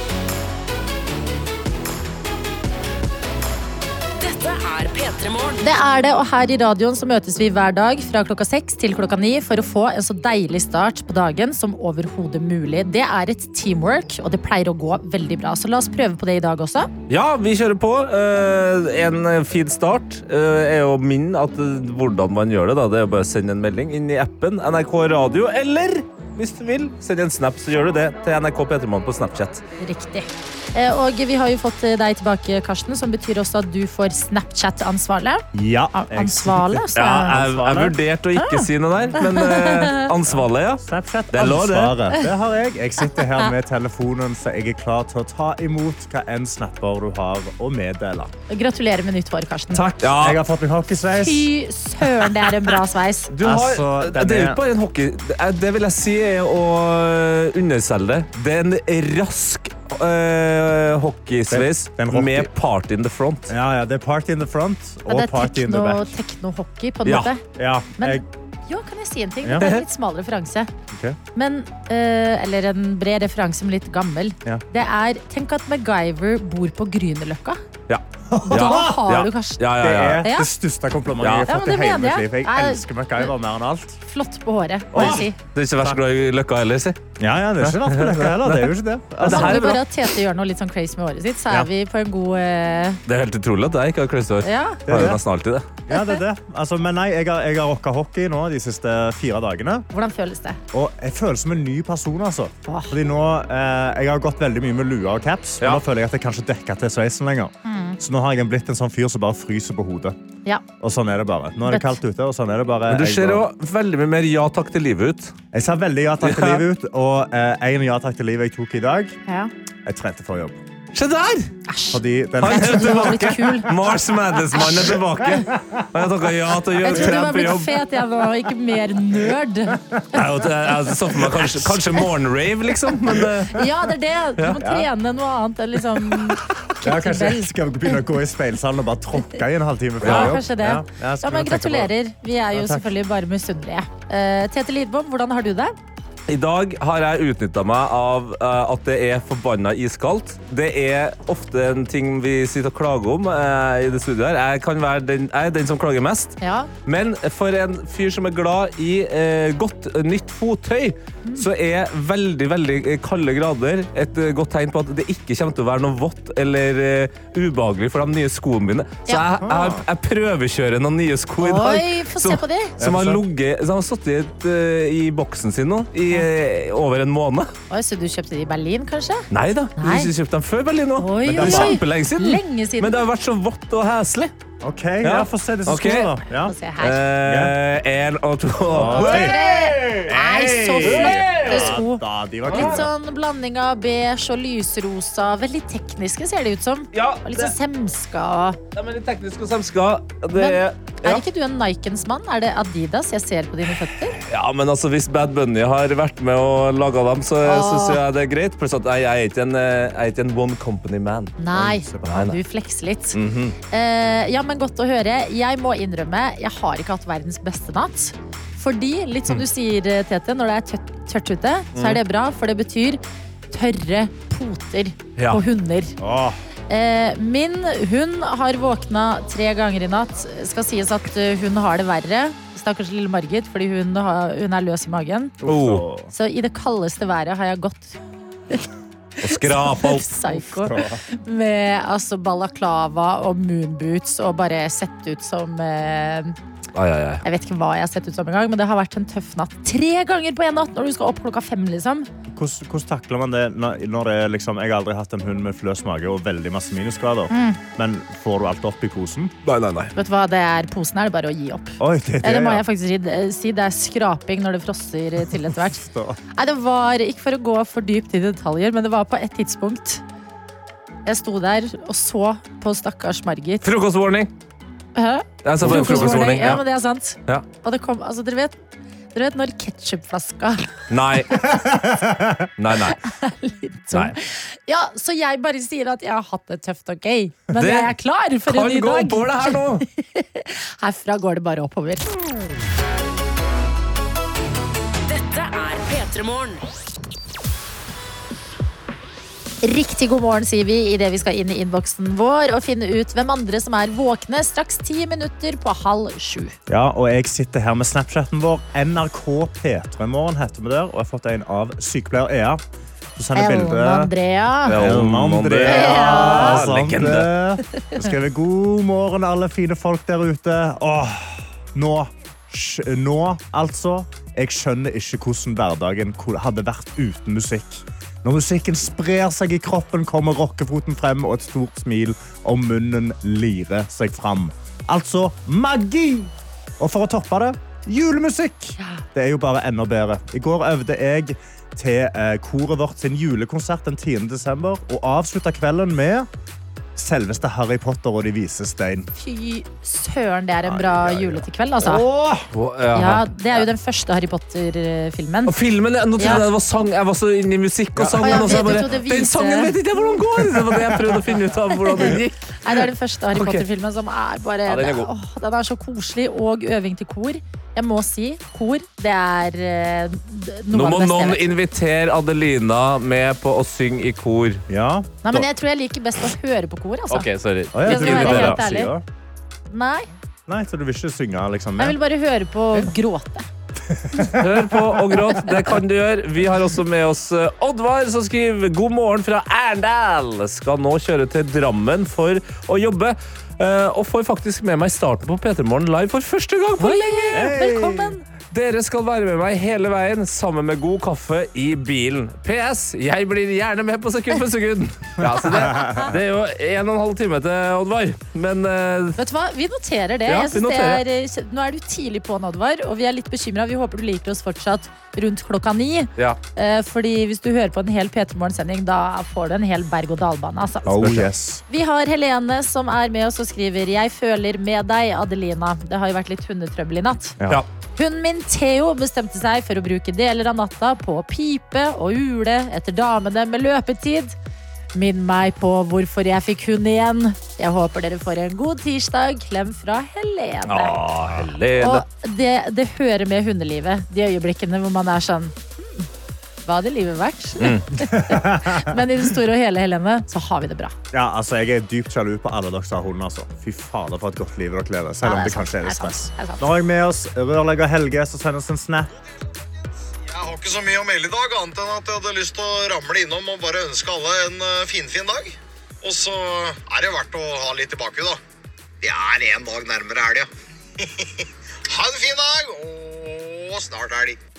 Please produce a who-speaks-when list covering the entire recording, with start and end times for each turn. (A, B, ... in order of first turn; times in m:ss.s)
0:04.2-0:05.6 A
0:05.6-0:16.9 B
0:17.1-0:29.6 C
0:29.8-0:37.4 B
0:35.5-0:38.0 D
0:37.0-0:42.0 C
0:38.4-0:40.1 B
0:40.3-0:48.3 D
0:48.5-0:49.8 B
0:49.7-0:50.4 C
0:50.1-0:51.5 D
0:51.2-0:53.3 B
0:53.3-1:03.5 C
0:53.4-0:54.6 D
1:01.5-1:02.5 D
1:03.5-1:06.1 D
1:05.1-1:07.4 B
1:07.0-1:07.3 C
1:07.6-1:08.2 D
1:08.0-1:10.7 B
1:10.9-1:11.2 D
1:11.4-1:17.6 B
1:17.9-1:20.2 C
1:18.3-1:19.0 D
1:18.5-1:19.6 B
1:19.8-1:24.0 D
1:20.2-1:20.5 B
1:21.2-1:21.5 C
1:21.5-1:23.3 B
1:24.1-1:25.4 B
1:24.9-1:25.3 D
1:25.0-1:27.0 C
1:27.2-1:29.8 D
1:27.6-1:28.6 C
1:29.2-1:29.8 C
1:29.2-1:33.0 B
1:33.1-1:35.7 C
1:34.4-1:34.8 B
1:34.9-1:35.2 D
1:35.9-1:39.9 D
1:39.9-1:40.6 B
1:40.7-1:50.2 D
1:42.6-1:43.0 B
1:47.6-1:48.0 B
1:50.8-1:53.4 D
1:51.7-1:52.0 B
1:52.9-1:55.4 C
1:55.5-1:59.2 D
1:56.2-1:56.6 C
1:59.3-1:59.5 B
1:59.8-2:00.6 D
2:00.9-2:01.5 C
2:01.7-2:03.7 B
2:01.9-2:03.3 D
2:02.4-2:07.7 C
2:05.4-2:05.8 D
2:06.8-2:09.8 B
2:06.9-2:07.2 D
2:10.1-2:13.6 C
2:13.5-2:18.0 B
2:14.6-2:14.9 D
2:16.8-2:21.9 D
2:20.0-2:25.8 B
2:20.0-2:20.4 C
2:22.5-2:22.9 D
2:26.3-2:57.5 C
2:36.4-2:36.7 B
2:49.4-2:49.8 D
2:51.4-2:52.8 B
2:52.8-2:53.2 D
2:57.7-2:59.3 B
2:59.3-3:04.3 C
2:59.8-3:00.1 B
3:01.0-3:03.0 B
3:01.4-3:01.8 D
3:04.6-3:06.6 D
3:05.0-3:06.2 C
3:06.4-3:07.0 B
3:06.8-3:11.8 C
3:07.2-3:07.6 D
3:08.7-3:09.4 D
3:08.9-3:18.6 B
3:10.8-3:12.9 D
3:12.5-3:12.8 C
3:16.9-3:17.5 C
3:18.7-3:21.2 C
3:20.4-3:24.2 B
3:24.2-3:31.4 C
3:27.4-3:28.0 B
3:31.4-3:33.2 B
3:31.5-3:32.0 D
3:32.0-3:32.4 C
3:33.2-3:33.6 C
3:33.7-3:46.0 B
3:41.8-3:42.0 C
3:46.0-3:46.4 D
3:46.7-3:55.4 B
3:55.4-3:56.1 D
3:55.4-3:55.8 C
3:56.1-3:58.6 B
3:59.2-4:00.1 C
3:59.3-4:06.4 B
4:00.4-4:01.0 D
4:06.8-4:07.2 C
4:07.2-4:12.1 B
4:12.3-4:19.3 D
4:17.3-4:17.6 B
4:19.4-4:19.9 C
4:20.0-4:25.8 B
4:21.8-4:22.6 D
4:25.7-4:26.2 D
4:26.3-4:30.0 B
4:31.1-4:33.7 B
4:33.6-4:34.3 C
4:35.0-4:38.6 B
4:35.4-4:36.6 C
4:35.7-4:36.2 D
4:39.1-4:40.7 B
4:40.9-4:41.4 C
4:41.4-4:42.5 D
4:42.6-4:43.0 C
4:43.0-4:52.1 B
4:47.6-4:47.9 C
4:48.5-4:49.8 C
4:55.1-4:56.6 A
4:59.6-5:06.6 B
5:06.7-5:12.6 D
5:13.2-5:14.1 D
5:13.4-5:14.8 B
5:14.6-5:46.3 D
5:14.7-5:17.3 C
5:15.7-5:16.6 B
5:38.8-5:39.0 B
5:47.0-5:49.1 D
5:49.2-5:52.0 B
5:50.6-5:52.5 D
5:52.5-5:53.3 C
5:52.9-5:55.5 B
5:55.5-6:02.4 C
5:56.2-5:56.4 B
5:58.0-5:58.8 D
5:58.2-6:00.0 B
6:02.0-6:11.4 B
6:03.3-6:03.6 C
6:04.7-6:05.1 C
6:10.7-6:14.6 C
6:14.7-6:15.5 D
6:15.2-6:17.3 B
6:17.1-6:18.6 C
6:17.7-6:19.0 D
6:17.8-6:18.9 B
6:19.7-6:20.1 B
6:20.5-6:22.0 D
6:21.8-6:23.5 B
6:23.9-6:25.0 D
6:24.4-6:37.5 C
6:36.8-6:38.3 B
6:37.3-6:38.1 D
6:38.5-6:49.2 C
6:45.7-6:46.0 D
6:45.7-6:46.1 B
6:49.2-7:01.0 B
6:50.3-6:51.0 C
7:00.8-7:01.6 D
7:01.0-7:01.3 C
7:01.7-7:07.4 B
7:08.0-7:14.4 B
7:14.9-7:21.0 B
7:20.7-7:22.0 C
7:21.8-7:26.1 B
7:26.7-7:31.0 B
7:27.6-7:27.9 C
7:28.1-7:29.0 D
7:31.1-7:39.1 D
7:35.2-7:36.6 B
7:40.3-7:48.4 E
7:49.0-7:50.5 E
7:51.9-7:54.4 E